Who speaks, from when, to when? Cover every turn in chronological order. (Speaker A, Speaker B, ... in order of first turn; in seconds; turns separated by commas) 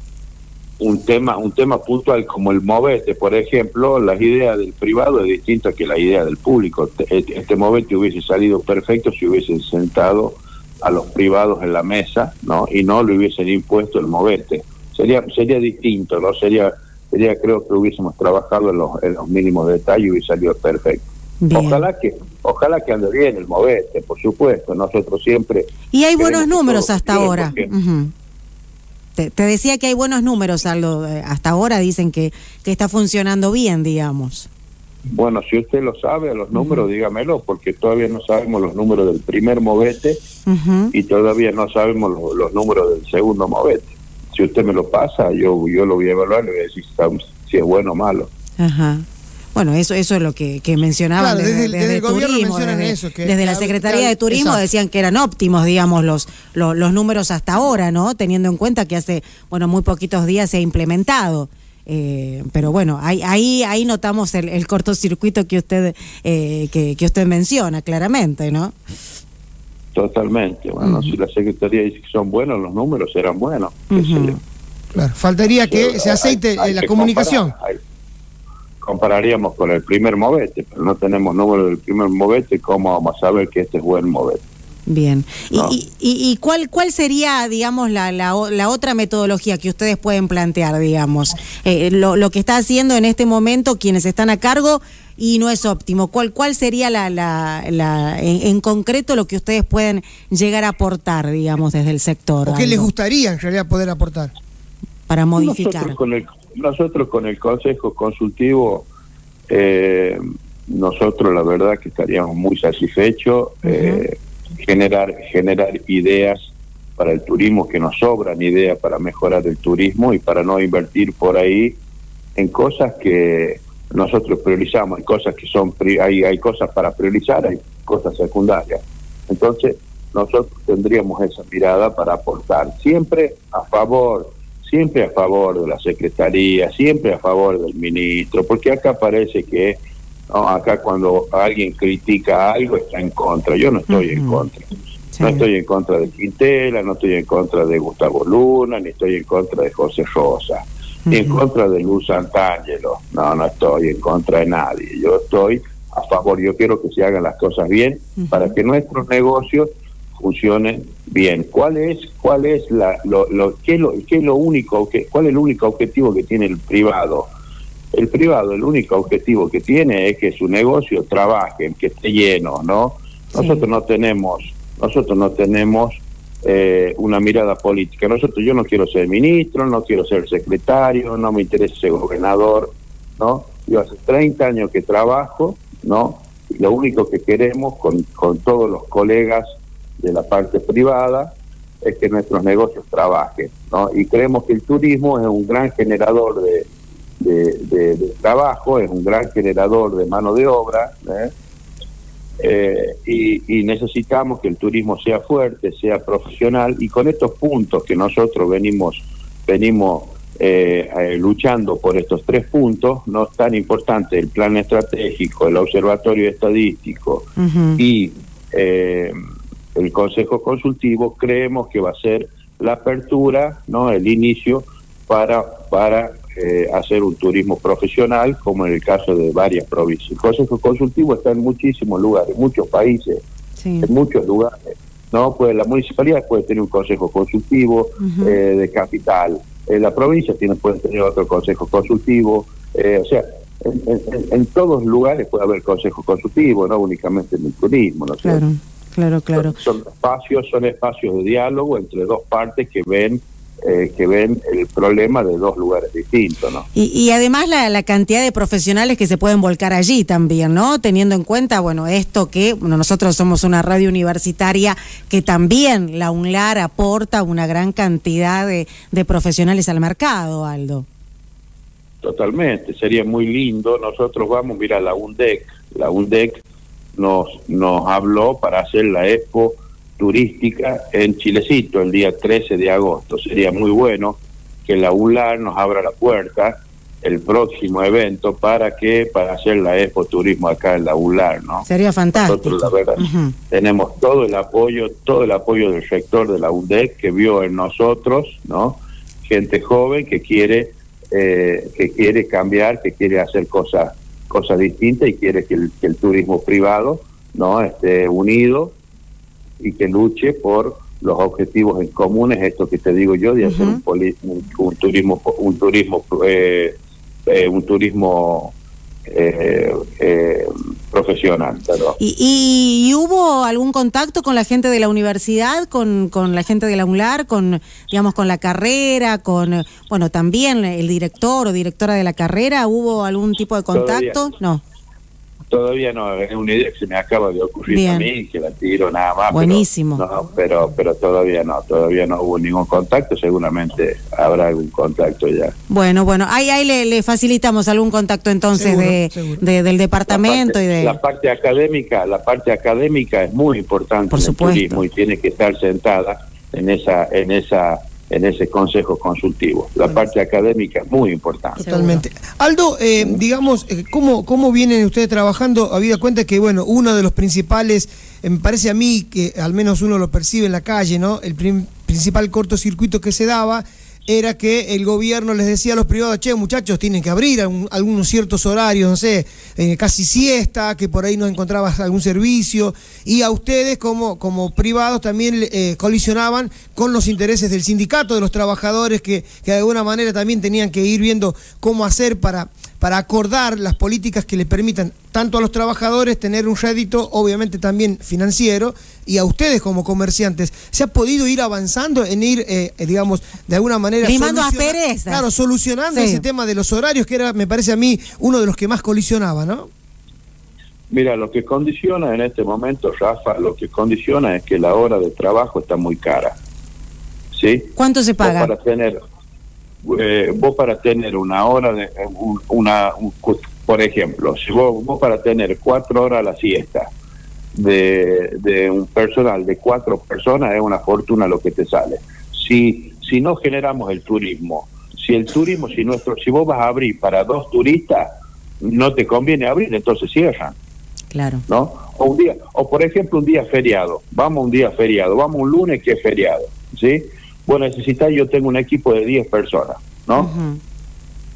Speaker A: 0.8-27.7, Speaker B: 21.4-21.8, Speaker B: 25.9-28.1, Speaker B: 29.2-34.5, Speaker A: 35.1-40.2, Speaker B: 36.5-36.8, Speaker B: 40.5-40.9, Speaker A: 40.9-48.3, Speaker B: 48.6-68.7, Speaker C: 51.2-54.6, Speaker A: 69.9-74.3, Speaker B: 70.8-71.2, Speaker B: 73.9-74.4, Speaker C: 74.9-77.5, Speaker A: 75.5-77.8, Speaker A: 78.8-84.4, Speaker B: 84.9-102.9, Speaker C: 102.4-104.3, Speaker B: 105.1-106.0, Speaker A: 105.4-108.8, Speaker A: 109.5-121.8, Speaker B: 113.6-114.0, Speaker A: 122.3-139.8, Speaker A: 140.3-144.7, Speaker B: 143.9-144.4, Speaker A: 145.2-167.3, Speaker B: 151.1-151.4, Speaker A: 167.9-189.4, Speaker B: 173.3-173.6, Speaker A: 190.0-196.7, Speaker A: 197.2-201.3, Speaker A: 202.4-219.2, Speaker B: 217.4-217.8, Speaker A: 219.7-233.2, Speaker B: 233.6-233.9, Speaker A: 233.8-248.4, Speaker B: 238.0-238.4, Speaker B: 248.2-249.6, Speaker A: 249.3-256.7, Speaker B: 256.7-270.9, Speaker A: 272.0-276.4, Speaker A: 276.9-308.7, Speaker B: 291.6-293.3, Speaker A: 309.6-316.7, Speaker B: 313.4-313.8, Speaker A: 317.2-318.5, Speaker A: 319.1-322.0, Speaker B: 322.0-334.6, Speaker A: 333.7-334.3, Speaker A: 335.5-345.5, Speaker B: 337.7-338.1, Speaker B: 339.3-340.0, Speaker B: 345.7-351.0, Speaker C: 348.6-349.4, Speaker A: 350.1-361.6, Speaker B: 354.1-354.8, Speaker C: 361.6-409.7, Speaker B: 361.6-362.0, Speaker B: 404.0-405.2, Speaker B: 405.9-406.2, Speaker A: 410.9-416.4, Speaker A: 417.3-419.0, Speaker B: 417.8-418.5, Speaker A: 419.8-426.9, Speaker A: 427.5-438.1, Speaker A: 438.6-440.5, Speaker B: 441.1-441.4, Speaker A: 441.5-450.3, Speaker B: 450.2-450.6